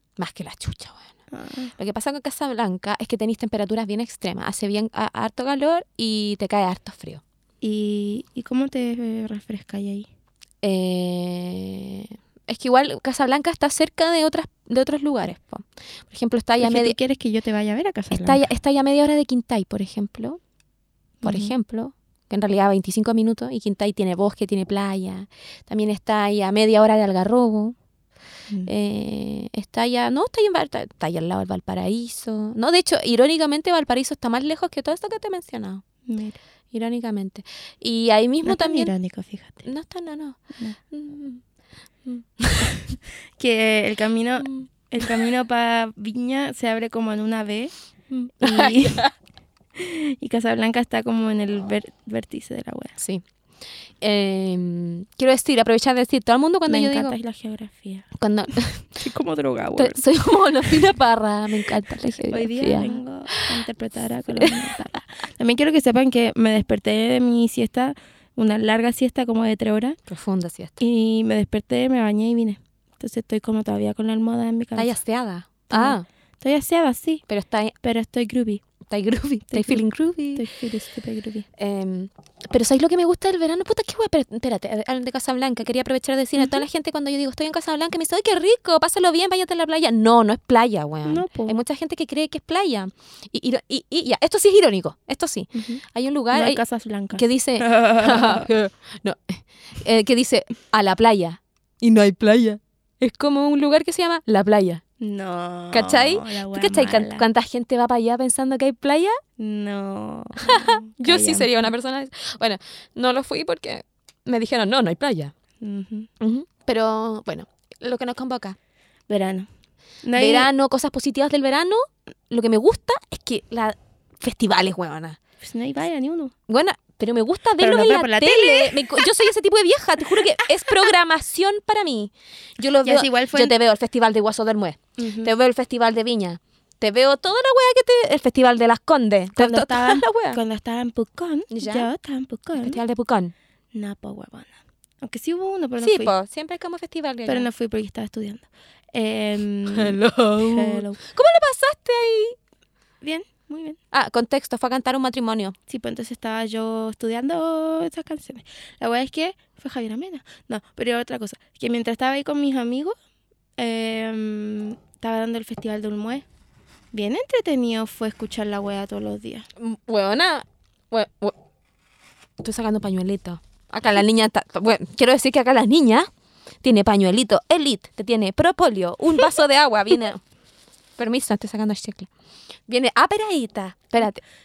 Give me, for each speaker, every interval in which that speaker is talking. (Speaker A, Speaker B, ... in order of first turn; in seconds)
Speaker A: 0.2-1.1, 1.8-7.2, 10.6-16.9, 18.1-20.4, 21.2-27.8, 28.6-35.9, 36.7-38.9, 39.6-40.4, 40.9-41.4, 42.0-42.7, 44.4-44.7, 48.1-49.1, 53.0-53.2, 54.0-57.2, 58.2-58.9, 59.8-63.5, 70.1-70.8, 74.8-76.1, 77.3-77.7, 78.9-80.5, 81.6-96.6, 97.1-104.8, 105.7-109.2, 110.4-115.3, 116.2-118.6, 120.2-125.2, 126.5-140.4, 141.5-141.9, 142.6-143.3, 145.8-147.5, 149.7-152.4, 153.9-155.6, 169.6-171.4, 172.4-176.1, 176.6-180.2, 181.0-182.1, 182.7-184.2
Speaker B: 1.3-1.7, 7.6-10.1, 16.6-18.4, 21.2-21.5, 36.1-36.4, 38.5-39.7, 43.4-47.7, 48.4-49.0, 49.8-52.9, 56.7-58.1, 59.0-60.0, 62.2-70.0, 70.8-75.0, 75.7-77.2, 77.8-78.6, 79.5-79.8, 80.3-81.5, 86.4-86.7, 91.1-91.6, 95.5-98.5, 105.0-107.2, 109.4-111.7, 115.6-116.1, 119.1-119.5, 120.0-120.5, 125.4-126.3, 127.6-129.1, 130.2-130.9, 132.8-133.5, 135.0-135.3, 139.4-142.8, 143.7-146.1, 147.3-151.0, 153.0-153.8, 155.7-162.9, 163.6-166.2, 166.9-169.5